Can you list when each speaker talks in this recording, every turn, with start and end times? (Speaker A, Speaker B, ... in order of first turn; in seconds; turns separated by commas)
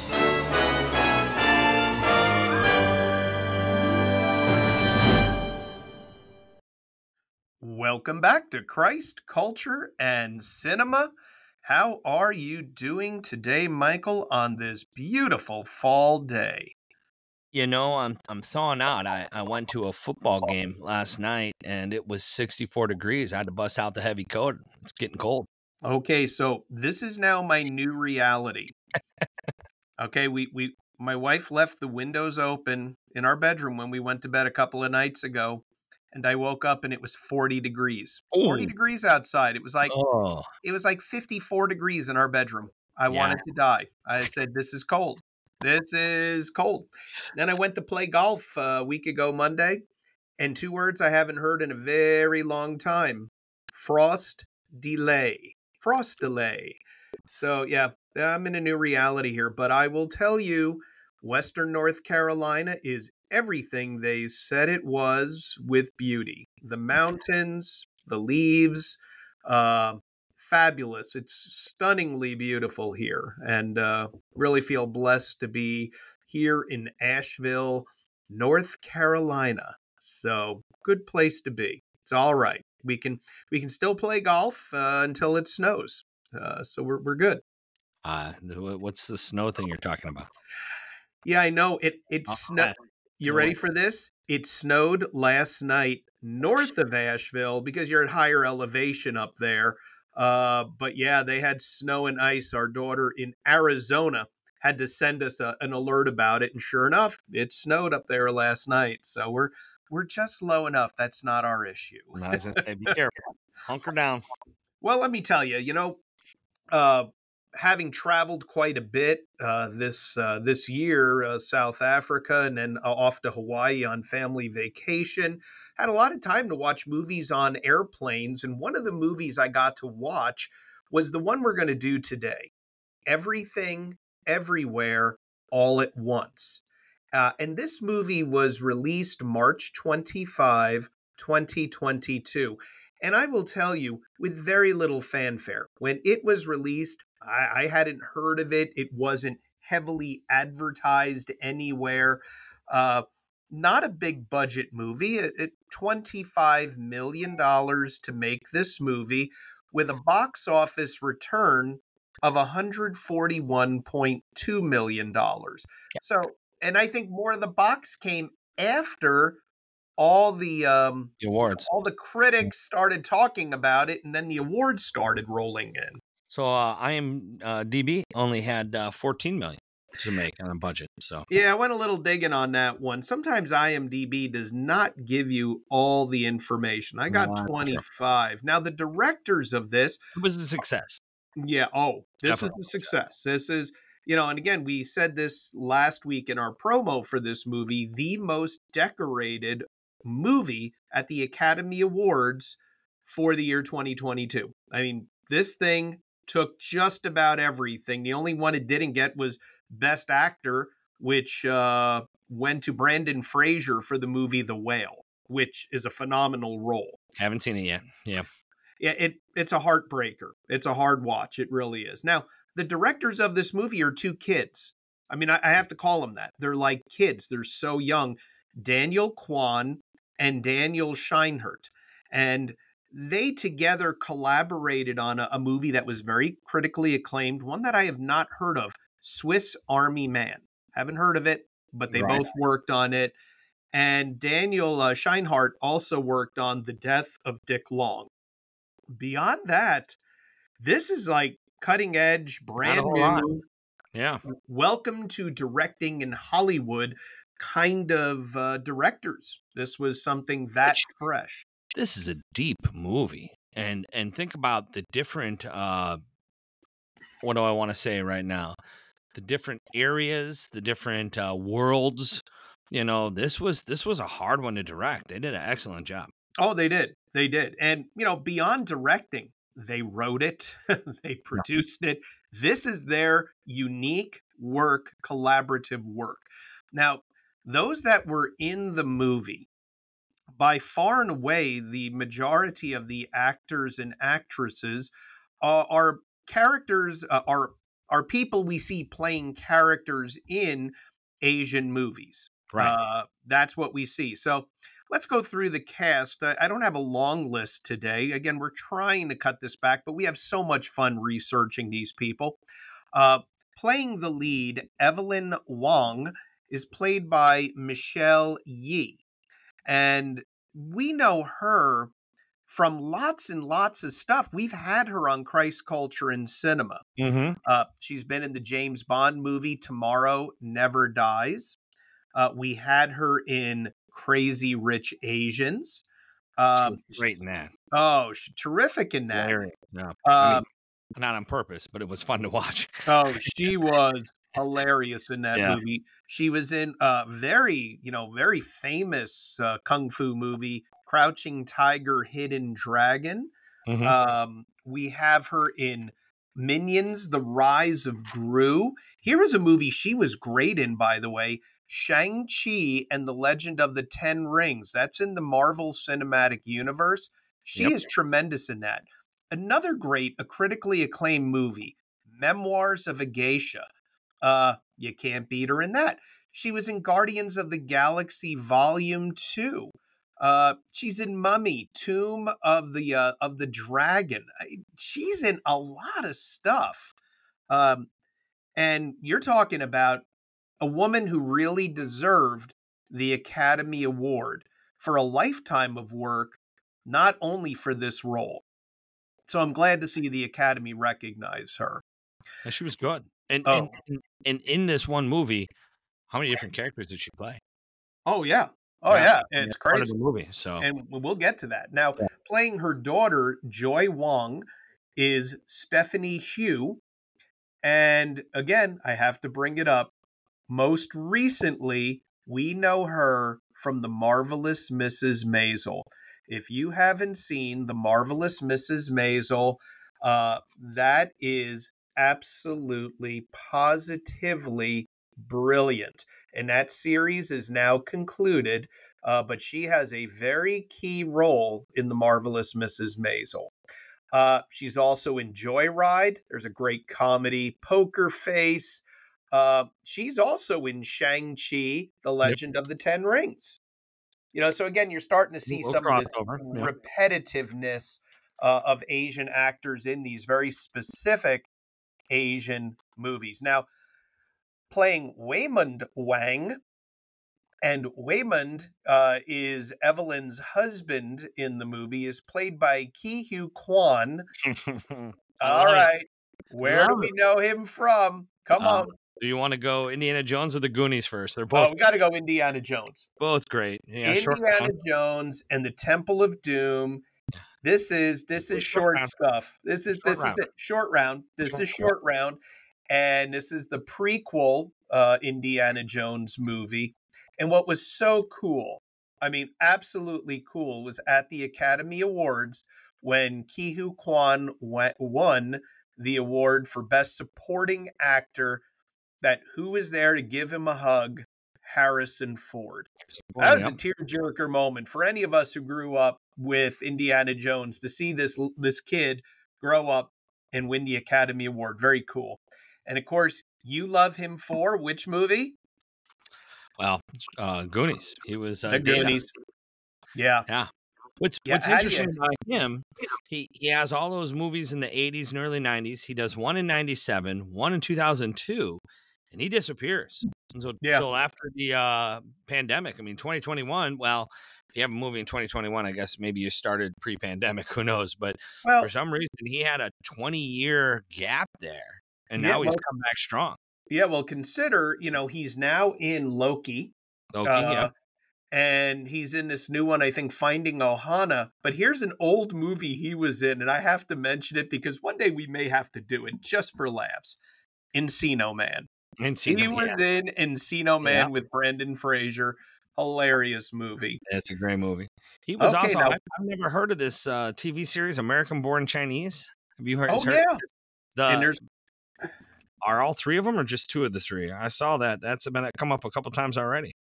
Speaker A: 7.6-11.1, Speaker A: 11.6-16.7, Speaker B: 17.5-25.5, Speaker A: 25.8-28.7, Speaker A: 30.0-39.9, Speaker B: 38.3-38.7, Speaker B: 39.9-40.5, Speaker A: 40.6-49.8, Speaker B: 43.1-43.4, Speaker A: 50.4-56.8, Speaker A: 57.3-87.4, Speaker B: 88.0-90.3, Speaker A: 91.2-112.6, Speaker B: 92.3-93.5, Speaker B: 112.1-114.2, Speaker A: 114.8-116.0, Speaker A: 116.7-132.5, Speaker A: 133.1-136.6, Speaker A: 137.1-169.4, Speaker A: 170.0-176.0, Speaker B: 171.2-171.7, Speaker B: 176.3-181.2, Speaker A: 181.3-190.0, Speaker B: 187.1-187.8, Speaker B: 190.1-191.0, Speaker A: 191.4-217.0, Speaker B: 192.2-192.8, Speaker B: 217.2-218.3, Speaker A: 218.8-243.2, Speaker B: 241.9-242.2, Speaker A: 243.7-248.1, Speaker A: 248.9-250.0, Speaker A: 250.6-253.4, Speaker B: 252.6-253.3, Speaker B: 253.9-254.2, Speaker A: 254.2-261.4, Speaker B: 261.7-266.0, Speaker B: 267.2-268.6, Speaker B: 269.1-276.1, Speaker A: 276.4-289.5, Speaker A: 290.3-312.4, Speaker A: 312.9-319.0, Speaker A: 319.6-321.9, Speaker A: 322.5-326.8, Speaker B: 327.0-327.4, Speaker A: 327.4-331.6, Speaker A: 332.1-335.8, Speaker A: 336.4-337.0, Speaker B: 336.6-337.5, Speaker A: 337.7-339.4, Speaker B: 339.1-340.4, Speaker A: 340.0-340.4, Speaker B: 340.9-343.2, Speaker A: 342.9-353.3, Speaker B: 353.7-353.9, Speaker A: 353.8-373.7, Speaker B: 367.6-367.9, Speaker A: 374.2-386.9, Speaker A: 387.5-387.9, Speaker A: 388.6-390.0, Speaker A: 390.6-398.4, Speaker A: 399.3-401.8, Speaker B: 402.4-405.5, Speaker A: 403.4-403.7, Speaker B: 406.1-407.4, Speaker A: 408.1-409.9, Speaker B: 408.9-410.7, Speaker A: 410.6-414.4, Speaker A: 414.9-416.8, Speaker A: 417.6-419.9, Speaker A: 420.5-443.5, Speaker A: 444.1-453.6, Speaker A: 454.3-461.5, Speaker B: 455.5-456.7, Speaker A: 462.1-463.6, Speaker A: 464.7-466.6, Speaker A: 467.6-474.2, Speaker B: 474.4-475.9, Speaker A: 475.4-478.9, Speaker B: 476.6-477.1, Speaker B: 478.6-481.7, Speaker A: 481.5-483.1, Speaker B: 483.2-484.7, Speaker A: 484.0-487.0, Speaker A: 487.6-492.4, Speaker B: 488.5-489.1, Speaker B: 490.0-490.4, Speaker B: 491.5-491.9, Speaker A: 492.9-508.6, Speaker A: 509.2-525.5, Speaker B: 513.2-513.8, Speaker B: 526.8-529.2, Speaker A: 528.7-529.3, Speaker A: 530.1-530.4, Speaker B: 530.5-553.6, Speaker A: 531.5-532.1, Speaker A: 540.8-541.1, Speaker A: 548.6-548.9, Speaker A: 552.4-552.8, Speaker A: 553.9-556.9, Speaker B: 557.3-557.9, Speaker A: 557.4-557.9, Speaker A: 558.5-567.4, Speaker A: 567.9-568.9, Speaker B: 569.2-570.0, Speaker A: 569.5-574.2, Speaker B: 571.0-571.3, Speaker B: 574.3-580.5, Speaker A: 575.6-576.2, Speaker A: 580.1-580.6, Speaker B: 581.1-581.6, Speaker A: 581.3-581.6, Speaker B: 582.8-586.9